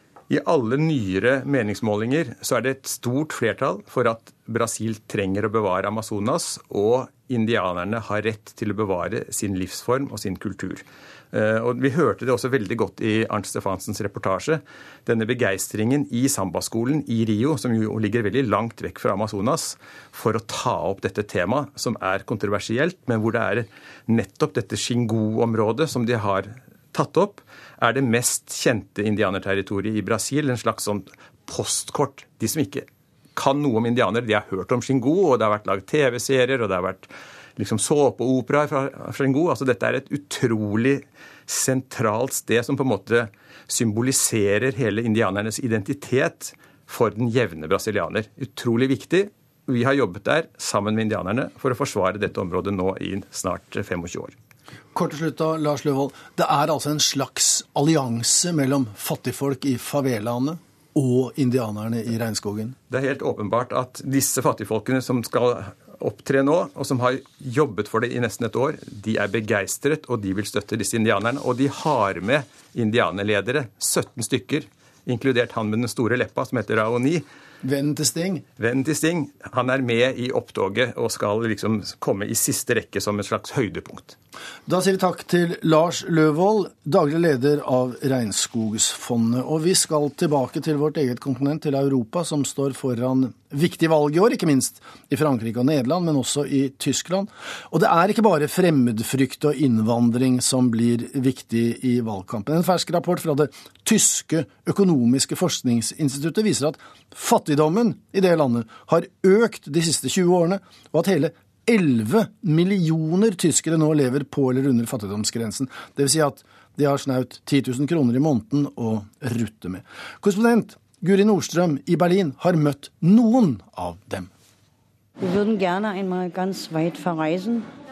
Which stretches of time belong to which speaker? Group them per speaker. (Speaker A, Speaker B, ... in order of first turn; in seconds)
Speaker A: 0.3-54.3, 62.9-77.2, 78.6-84.2
Speaker B: 54.9-62.8, 77.6-78.4, 84.7-124.3
Speaker C: 125.2-127.7